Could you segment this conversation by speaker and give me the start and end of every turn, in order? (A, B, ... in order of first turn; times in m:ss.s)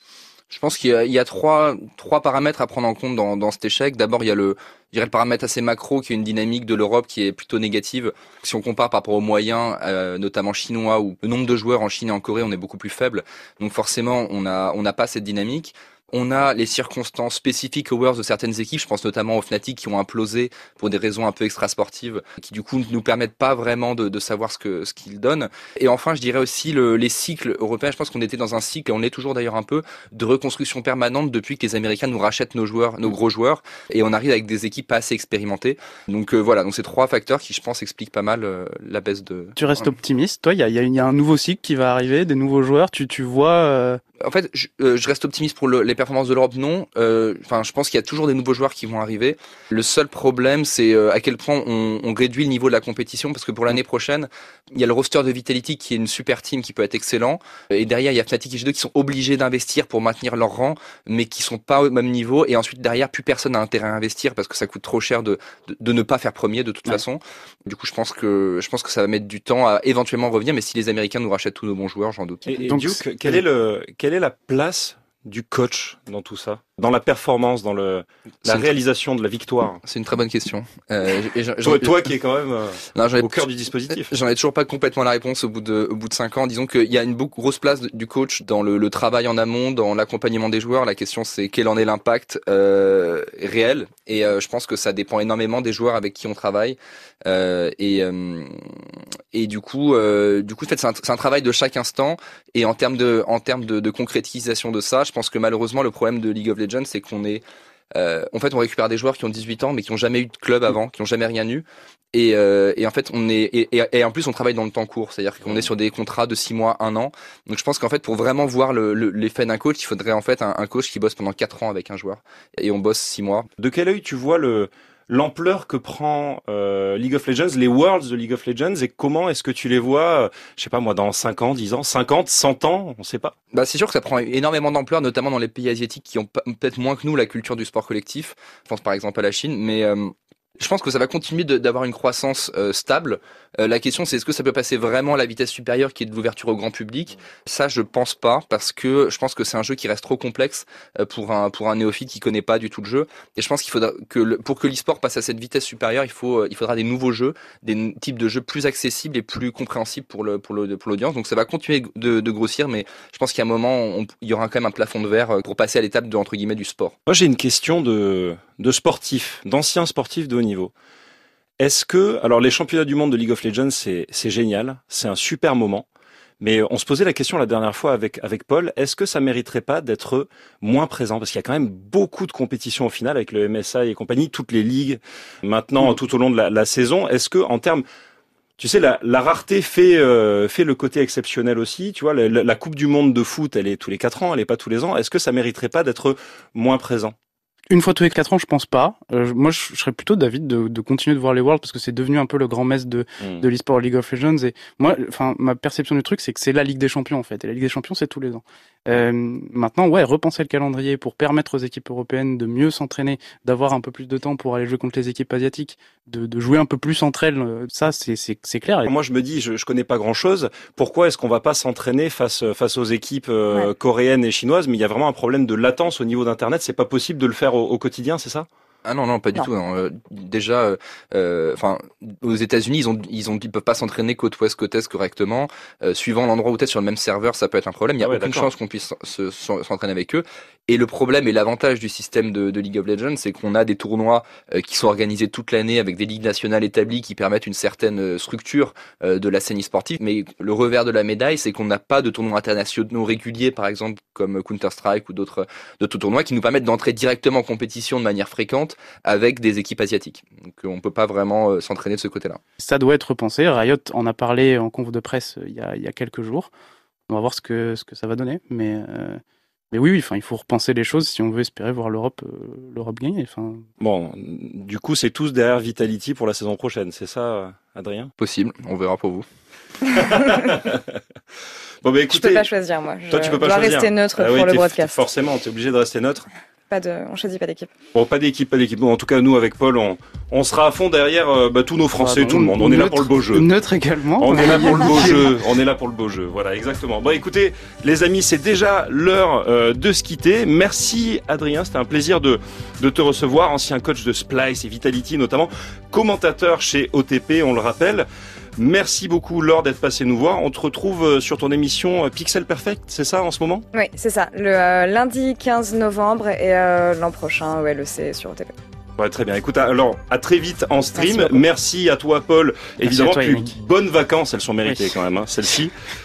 0:00.5-0:39.5 A
0:39.6-0:44.0 B
0:44.2-1:12.5 A
1:12.5-1:19.8 C
1:12.6-1:13.4 B
1:18.4-1:18.8 A
1:19.8-1:22.0 A
1:21.6-1:24.1 C
1:22.9-1:38.7 A
1:39.3-1:47.4 A
1:47.9-2:03.5 A
1:55.4-1:55.7 C
2:03.6-2:13.3 C
2:13.5-2:46.9 A
2:47.1-2:50.7 C
2:51.6-2:55.9 C
2:56.4-3:07.8 C
3:08.6-3:17.1 C
3:17.7-3:38.9 B
3:38.8-3:48.5 C
3:48.8-4:22.4 A
3:58.0-3:58.5 C
4:22.6-4:26.5 B
4:27.1-4:33.6 B
4:33.8-4:38.1 C
4:38.2-4:39.2 A
4:40.0-4:40.4 D
4:40.1-4:40.8 C
4:41.8-4:42.5 C
4:42.1-4:45.0 D
4:43.1-4:46.3 C
4:46.7-4:47.7 D
4:47.9-4:53.5 C
4:52.0-4:55.3 B
4:54.2-5:13.6 C
5:13.7-5:18.5 D
5:19.0-5:25.7 C
5:21.0-5:21.4 D
5:22.8-5:23.6 B